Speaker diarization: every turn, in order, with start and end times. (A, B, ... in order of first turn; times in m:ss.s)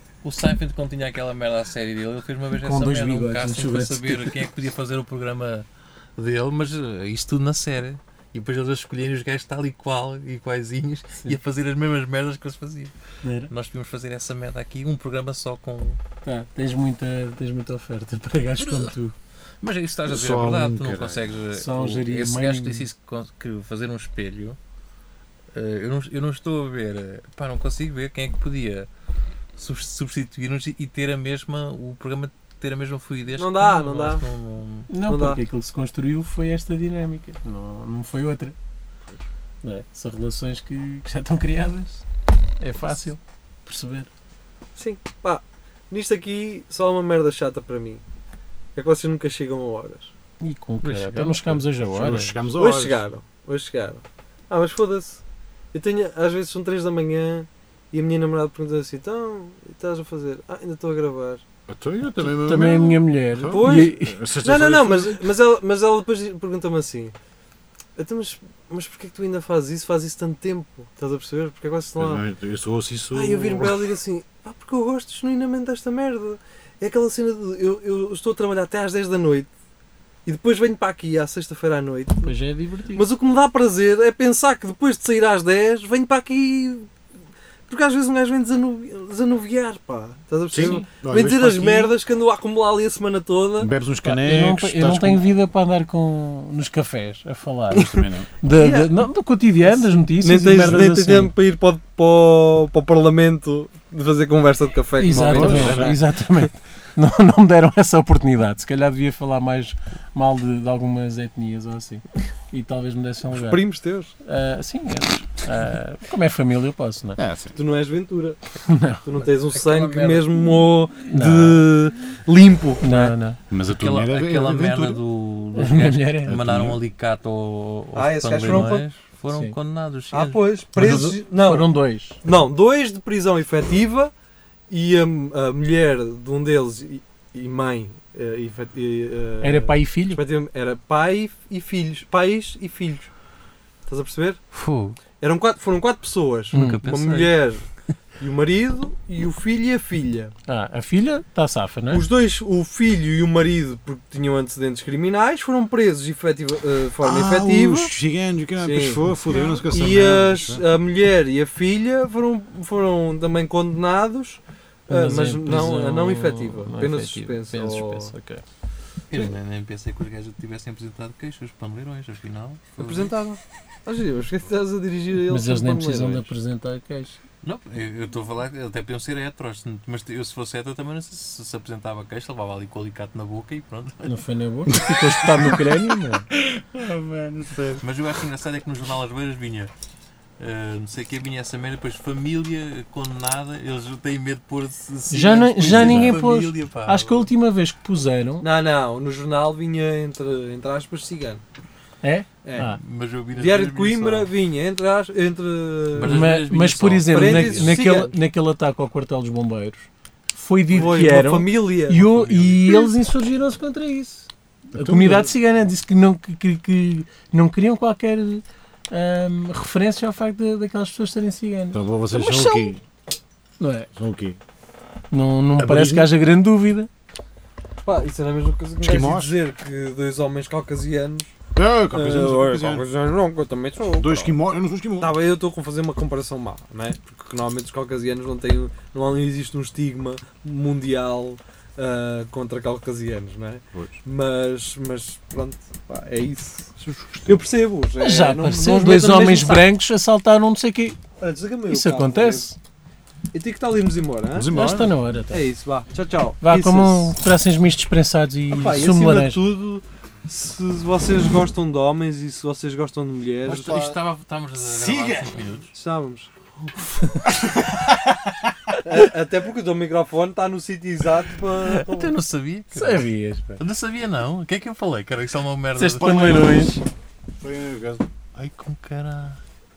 0:00.2-0:12.9 A
0:02.5-0:04.3 B
0:13.2-0:13.5 B
0:13.5-0:16.0 A
0:16.2-0:19.2 B
0:18.6-0:19.0 A
0:19.6-0:24.6 A
0:20.1-0:21.4 C
0:21.5-0:22.9 B
0:25.5-0:28.9 A
0:29.6-0:34.9 A
0:33.4-0:34.2 D
0:34.9-0:38.6 B
0:35.0-0:35.4 D
0:39.6-0:42.0 B
0:42.6-0:44.1 B
0:44.8-0:48.0 D
0:48.8-0:50.1 D
0:50.4-0:52.5 B
0:50.8-0:53.1 C
0:52.5-0:55.2 D
0:55.7-1:01.4 D
1:01.7-1:05.3 C
1:02.2-1:04.2 B
1:03.5-1:07.1 D
1:08.0-1:12.2 D
1:12.0-1:13.9 C
1:13.1-1:19.5 D
1:20.2-1:22.3 D
1:22.2-1:23.1 B
1:22.9-1:26.9 D
1:27.7-1:33.7 D
1:30.5-1:32.0 C
1:30.6-1:30.8 B
1:33.6-1:35.3 C
1:34.0-1:41.3 B
1:37.7-1:38.3 C
1:37.7-1:38.9 D
1:39.6-1:46.0 D
1:45.0-1:53.6 B
1:45.1-1:46.0 C
1:53.4-1:54.1 D
1:54.2-1:57.2 B
1:57.2-1:57.6 C
1:57.6-1:58.4 D
1:58.7-1:59.0 B
1:59.0-2:03.2 D
1:59.2-2:00.4 A
2:01.1-2:01.6 B
2:02.8-2:03.4 B
2:03.5-2:05.0 C
2:03.7-2:10.4 A
2:05.5-2:06.3 B
2:06.3-2:06.8 C
2:07.9-2:08.8 D
2:08.5-2:08.7 B
2:09.3-2:09.6 B
2:10.1-2:11.7 D
2:10.8-2:12.2 B
2:12.2-2:14.1 D
2:14.7-2:23.1 D
2:19.4-2:20.2 B
2:23.9-2:24.4 D
2:24.5-2:25.0 A
2:25.2-2:27.7 D
2:26.5-2:26.8 B
2:26.5-2:27.4 A
2:28.2-2:30.3 D
2:30.5-2:32.1 B
2:31.9-2:37.9 D
2:37.0-2:40.6 C
2:38.6-2:48.1 D
2:44.9-2:48.4 B
2:49.1-2:53.1 A
2:52.8-2:56.3 D
2:55.2-2:57.2 B
2:57.4-3:04.2 A
3:04.0-3:06.3 B
3:04.7-3:07.8 C
3:07.8-3:09.7 A
3:10.4-3:17.3 A
3:15.1-3:18.4 B
3:15.6-3:16.2 C
3:18.4-3:21.4 D
3:22.0-3:22.8 B
3:22.4-3:22.7 D
3:22.8-3:24.3 A
3:23.3-3:26.3 D
3:26.0-3:27.8 A
3:26.0-3:42.7 B
3:27.1-3:28.2 D
3:30.7-3:32.1 D
3:32.1-3:32.6 A
3:34.7-3:35.3 C
3:41.7-3:42.8 C
3:43.6-3:43.9 B
3:44.0-3:44.4 C
3:45.1-3:46.9 B
3:45.6-3:46.1 C
3:47.8-3:51.3 D
3:48.8-3:49.4 C
3:51.6-3:52.9 C
3:51.9-3:54.4 D
3:54.0-3:55.1 C
3:55.0-4:09.7 D
4:08.0-4:11.0 B
4:11.2-4:12.5 D
4:11.7-4:12.6 B
4:13.3-4:14.5 D
4:14.4-4:14.9 C
4:14.5-4:15.5 B
4:15.3-4:17.2 D
4:16.4-4:19.4 B
4:18.6-4:23.9 D
4:23.4-4:25.7 A
4:23.5-4:24.0 C
4:24.6-4:25.5 C
4:25.7-4:26.3 D
4:27.5-4:28.5 C
4:28.8-4:32.2 D
4:31.6-4:36.8 A
4:32.7-4:33.6 B
4:35.8-4:36.8 B
4:37.4-4:38.1 C
4:38.4-4:39.4 A